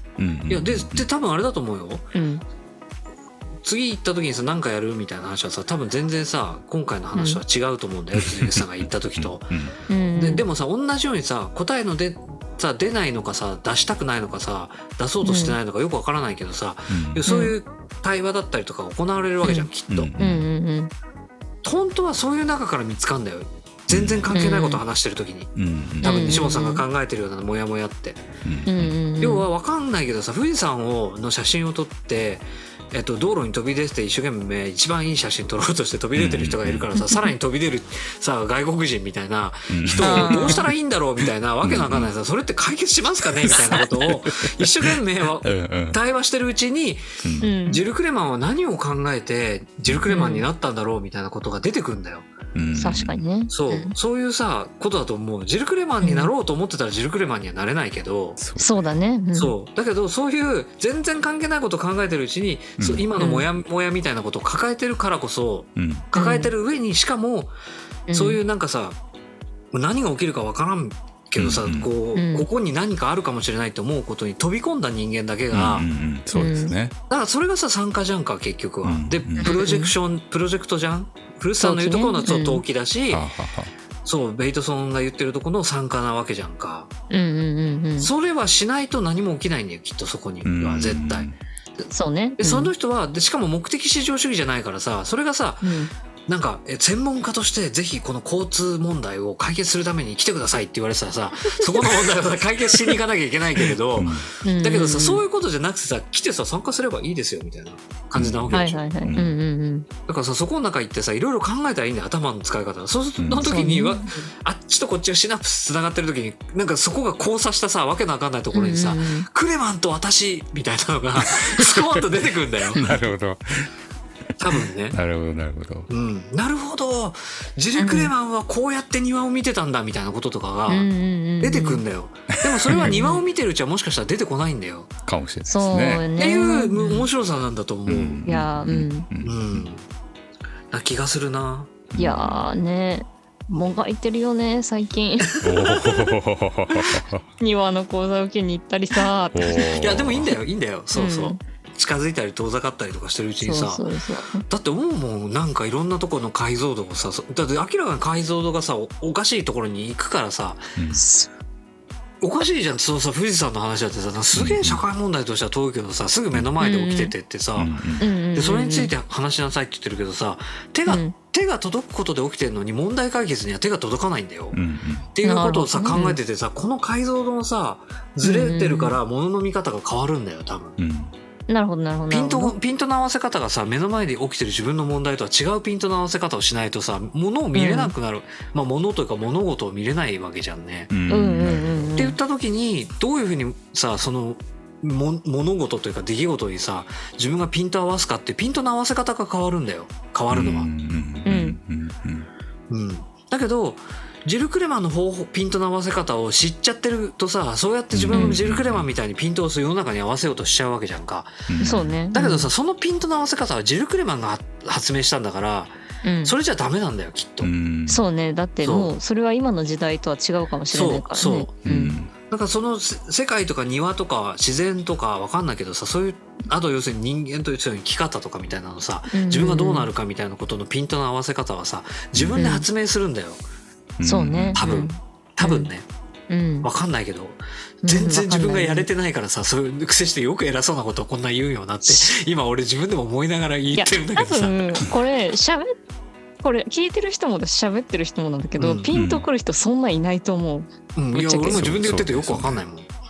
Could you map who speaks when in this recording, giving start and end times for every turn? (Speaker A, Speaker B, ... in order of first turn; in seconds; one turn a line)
Speaker A: 0.2-1.1
Speaker B: 0.5-2.1
Speaker C: 2.1-2.4
Speaker B: 3.6-9.5
Speaker C: 7.1-7.4
Speaker A: 8.2-9.8
Speaker C: 9.9-10.4
Speaker B: 10.2-20.1
Speaker C: 15.2-15.6
Speaker A: 16.9-17.2
Speaker C: 17.3-17.6
Speaker C: 19.4-19.7
Speaker A: 19.9-20.5
Speaker C: 20.2-20.9
Speaker B: 21.6-28.2
Speaker A: 23.9-24.4
Speaker C: 24.3-24.8
Speaker A: 25.6-26.2
Speaker C: 26.0-26.8
Speaker A: 28.4-28.9
Speaker C: 28.7-29.4
Speaker B: 29.2-47.0
Speaker A: 36.1-36.9
Speaker C: 37.0-37.3
Speaker A: 39.7-40.7
Speaker C: 40.0-40.7
Speaker A: 41.2-42.1
Speaker A: 43.4-46.0
Speaker A: 47.2-47.5
Speaker C: 47.4-47.8
Speaker B: 47.7-52.3
Speaker C: 50.1-50.5
Speaker A: 52.5-53.2
Speaker C: 52.7-53.9
Speaker B: 53.5-58.4
Speaker C: 56.0-56.3
Speaker A: 58.4-58.9
Speaker C: 58.6-59.5
Speaker B: 59.3-67.5
Speaker A: 62.8-63.1
Speaker C: 63.2-63.5
Speaker A: 65.8-66.1
Speaker C: 66.1-66.5
Speaker C: 68.1-68.4
Speaker B: 68.1-69.0
Speaker B: 69.7-75.9
Speaker A: 71.3-71.9
Speaker C: 72.1-72.5
Speaker A: 75.5-76.9
Speaker C: 76.3-76.7
Speaker B: 77.1-83.3
Speaker A: 78.8-79.6
Speaker C: 79.4-79.9
Speaker C: 81.6-82.6
Speaker A: 83.1-83.7
Speaker B: 84.0-86.9
Speaker C: 87.1-88.1
Speaker B: 88.0-91.3
Speaker A: 90.4-91.4
Speaker C: 91.9-92.7
Speaker B: 92.4-95.7
Speaker C: 95.6-95.9
Speaker B: 96.3-108.8
Speaker A: 103.9-104.3
Speaker C: 104.4-105.2
Speaker A: 108.1-109.3
Speaker C: 108.5-109.9
Speaker B: 110.1-123.0
Speaker A: 113.2-113.7
Speaker C: 113.4-114.3
Speaker C: 118.5-119.3
Speaker A: 121.2-121.9
Speaker A: 122.7-123.7
Speaker B: 124.4-125.0
Speaker A: 124.5-125.9
Speaker B: 125.9-130.9
Speaker C: 127.8-128.1
Speaker C: 130.7-131.8
Speaker B: 131.4-134.9
Speaker A: 132.4-133.0
Speaker C: 132.7-133.2
Speaker A: 135.1-136.1
Speaker C: 135.5-137.1
Speaker B: 136.2-138.2
Speaker A: 137.9-139.7
Speaker C: 138.2-139.1
Speaker B: 139.2-139.8
Speaker B: 140.7-141.8
Speaker A: 141.9-142.5
Speaker C: 142.0-145.4
Speaker A: 145.4-147.2
Speaker B: 145.4-146.0
Speaker C: 147.4-149.8
Speaker A: 149.3-150.3
Speaker B: 149.5-153.8
Speaker C: 150.9-151.4
Speaker C: 153.4-154.4
Speaker B: 154.4-160.7
Speaker C: 160.9-161.3
Speaker B: 162.2-167.8
Speaker A: 164.3-164.8
Speaker C: 166.6-167.1
Speaker A: 167.6-168.0
Speaker C: 168.0-168.9
Speaker B: 168.3-174.6
Speaker C: 170.9-171.1
Speaker A: 174.5-175.1
Speaker B: 175.1-180.8
Speaker C: 175.2-176.2
Speaker C: 178.2-178.9
Speaker A: 180.8-181.1
Speaker C: 181.5-182.5
Speaker B: 182.1-190.9
Speaker C: 187.5-187.9
Speaker A: 190.9-192.0
Speaker C: 191.1-192.2
Speaker B: 192.0-200.7
Speaker A: 200.3-202.3
Speaker C: 201.2-201.6
Speaker B: 202.7-217.5
Speaker A: 207.9-208.9
Speaker C: 208.1-208.4
Speaker A: 211.5-211.9
Speaker C: 211.6-212.5
Speaker C: 216.0-216.3
Speaker A: 217.4-218.0
Speaker C: 217.9-221.9
Speaker B: 218.6-218.9
Speaker B: 220.7-221.5
Speaker A: 221.6-222.1
Speaker B: 222.3-233.4
Speaker C: 229.1-229.9
Speaker A: 232.2-232.4
Speaker C: 232.3-232.7
Speaker A: 234.0-234.6
Speaker C: 234.0-235.7
Speaker B: 234.5-235.8
Speaker C: 236.3-236.7
Speaker B: 236.6-244.8
Speaker C: 237.8-238.9
Speaker C: 243.7-245.7
Speaker C: 246.4-251.7
Speaker B: 248.6-248.9
Speaker A: 248.9-249.2
Speaker B: 250.9-252.9
Speaker A: 251.5-252.6